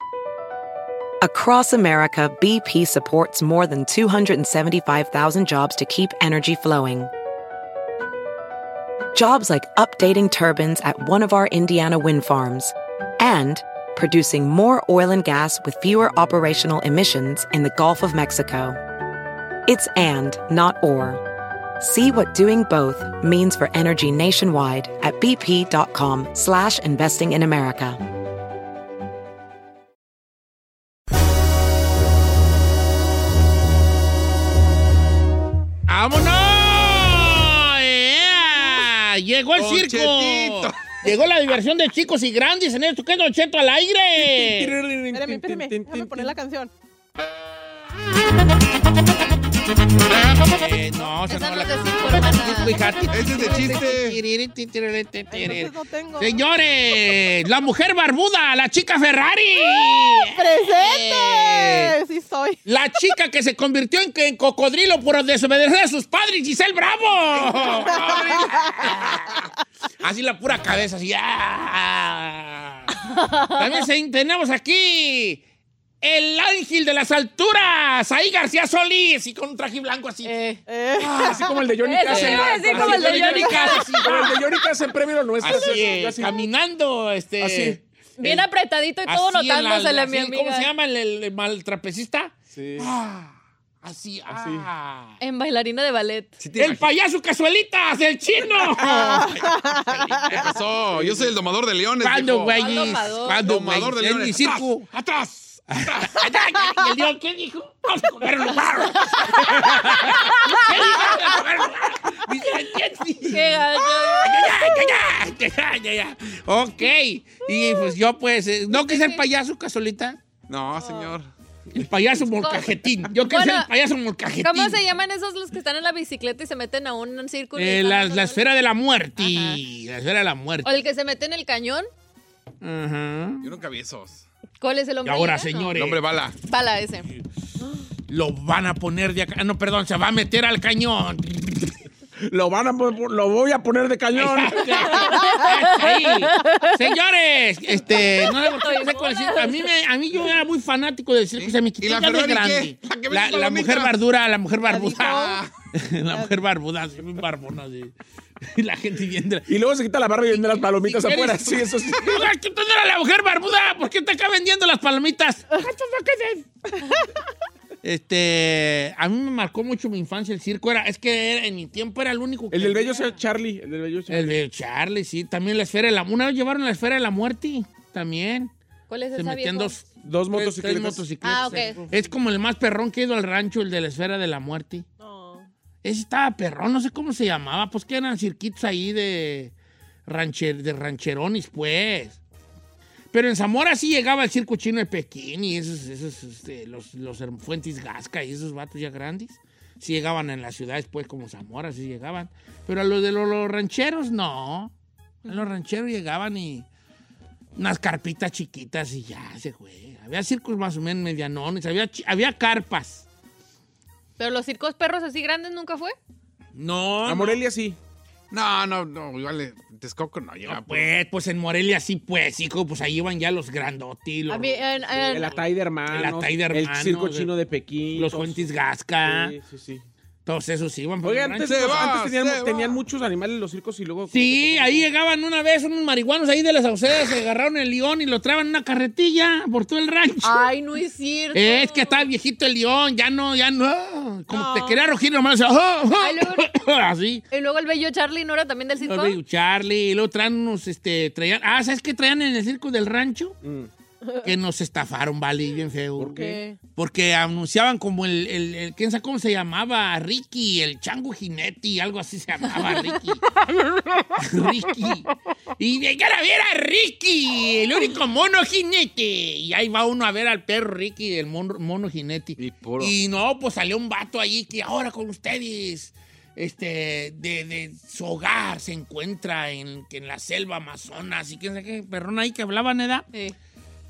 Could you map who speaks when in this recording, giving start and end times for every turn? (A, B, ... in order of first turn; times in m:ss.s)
0:01.2-0:07.1 A
0:09.1-0:18.8 A
0:19.7-0:21.2 A
0:21.8-0:28.0 A
0:35.9-0:44.8 B
0:39.6-0:41.0 C
0:44.2-0:46.3 D
0:45.1-0:46.7 E
0:50.4-1:02.0 B
0:51.3-0:52.9 F
0:53.1-0:54.2 C
0:55.3-0:56.4 E
0:59.8-1:02.6 E
1:02.6-1:09.4 B
1:07.5-1:09.0 C
1:07.5-1:08.9 E
1:10.0-1:12.9 B
1:13.2-1:13.6 F
1:13.6-1:15.4 B
1:16.0-1:20.4 B
1:20.2-1:20.6 F
1:20.7-1:21.4 E
1:21.0-1:24.4 B
1:21.1-1:26.3 D
1:21.8-1:24.3 F
1:23.4-1:23.9 E
1:25.4-1:28.5 B
1:27.4-1:27.8 D
1:28.2-1:30.7 F
1:29.1-1:35.2 B
1:32.6-1:32.9 D
1:34.3-1:34.7 D
1:35.2-1:36.3 F
1:36.4-1:36.8 C
1:36.6-1:40.6 B
1:38.8-1:39.1 D
1:38.9-1:40.4 E
1:40.3-1:46.2 C
1:40.9-1:41.3 D
1:42.0-1:44.9 B
1:42.6-1:43.4 F
1:45.7-2:00.2 B
1:50.5-1:51.0 F
1:53.2-1:54.9 F
1:58.7-1:59.2 F
2:00.5-2:01.3 C
2:00.8-2:01.1 E
2:01.7-2:04.8 B
2:02.4-2:03.7 F
2:04.4-2:08.4 F
2:07.6-2:10.7 B
2:09.2-2:09.6 F
2:10.6-2:11.9 F
2:12.6-2:13.5 B
2:13.4-2:14.3 C
2:14.6-2:15.7 F
2:15.0-2:16.0 B
2:15.8-2:16.4 C
2:16.4-2:17.1 F
2:18.1-2:21.8 B
2:22.2-2:25.0 D
2:24.1-2:39.5 B
2:25.0-2:25.5 E
2:25.3-2:26.4 F
2:28.3-2:29.7 F
2:31.4-2:34.0 C
2:34.6-2:35.4 E
2:35.0-2:35.5 C
2:39.5-2:42.3 D
2:40.3-2:46.5 B
2:47.8-2:53.0 B
2:52.5-2:54.4 D
2:54.1-2:58.5 B
2:58.9-2:59.8 F
2:59.2-3:04.8 B
3:00.0-3:01.0 D
3:01.2-3:01.8 F
3:05.0-3:05.5 E
3:05.8-3:09.5 B
3:10.1-3:12.2 B
3:13.1-3:24.7 B
3:25.2-3:26.7 B
3:27.6-3:33.1 B
3:34.2-3:36.0 F
3:36.6-3:37.4 B
3:37.0-3:37.8 D
3:38.3-3:40.9 C
3:40.5-3:44.6 B
3:44.3-3:45.4 F
3:45.1-3:48.4 D
3:45.9-3:47.3 B
3:47.9-3:49.4 B
3:49.0-3:49.8 D
3:50.3-3:52.0 B
3:51.0-3:54.9 D
3:51.4-3:52.8 C
3:54.1-4:00.5 B
4:00.2-4:02.1 F
4:01.3-4:07.2 B
4:04.3-4:04.8 E
4:06.0-4:06.5 F
4:07.3-4:09.2 F
4:08.8-4:13.4 B
4:13.4-4:13.7 D
4:14.0-4:14.3 E
4:14.2-4:16.2 B
4:16.0-4:16.5 D
4:16.2-4:16.5 E
4:16.8-4:23.3 B
4:24.1-4:43.1 B
4:32.4-4:33.0 C